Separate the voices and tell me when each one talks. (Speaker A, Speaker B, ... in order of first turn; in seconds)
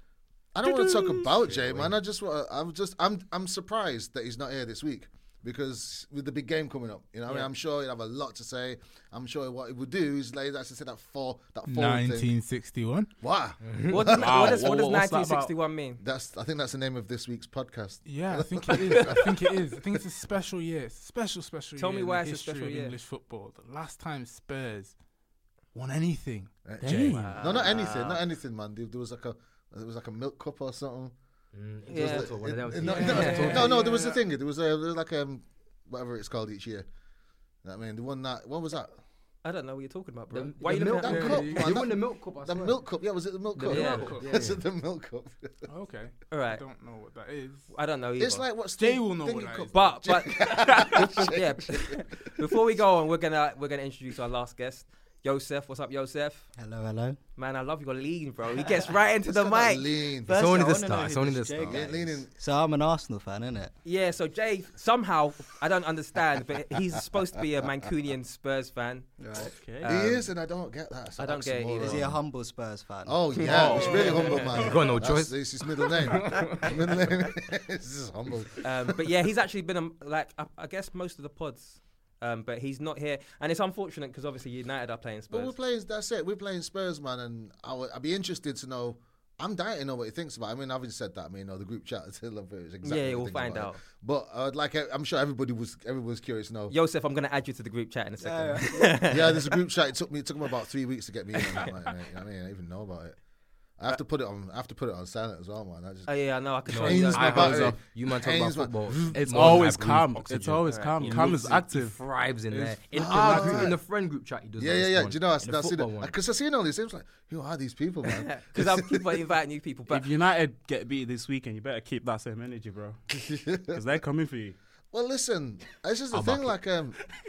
Speaker A: 0.6-12.3, 13.2-14.6, 16.0-19.3, 26.6-31.1, 31.9-36.9, 37.6-39.0, 41.0-45.6, 48.2-52.0, 59.2-60.4, 61.7-62.3, 69.8-72.2, 73.0-78.9, 85.3-96.8, 99.1-103.2, 103.8-106.2, 106.7-109.5, 112.9-113.8, 114.6-119.0, 123.2-123.8, 124.9-127.0
Speaker B: 0.6-1.8, 14.1-15.5, 69.4-69.9, 73.4-74.6, 107.3-107.8, 109.1-112.0, 112.5-113.6, 119.9-124.6
Speaker C: 11.7-13.1, 18.1-24.9, 25.7-27.3, 41.1-41.7, 43.7-44.3, 45.7-47.7, 48.8-50.0
Speaker D: 13.6-14.0, 31.5-34.0, 40.3-42.8, 43.6-44.6, 60.4-61.9, 74.5-75.6, 76.2-76.7, 106.7-116.2, 126.1-126.6
Speaker E: 13.9-16.0, 18.7-19.2, 21.8-23.0, 27.2-28.2, 31.9-33.8, 39.4-41.5, 43.6-44.1, 46.3-46.6, 47.7-48.5, 49.7-56.5, 57.4-59.9, 63.9-69.2, 69.8-70.3, 71.2-72.0, 73.4-74.5, 78.6-85.5, 92.8-93.8, 96.7-99.6, 106.1-107.7, 110.7-111.2, 118.1-120.1
Speaker F: 56.6-57.2, 60.2-63.7, 69.2-69.5, 71.8-74.1, 98.2-99.2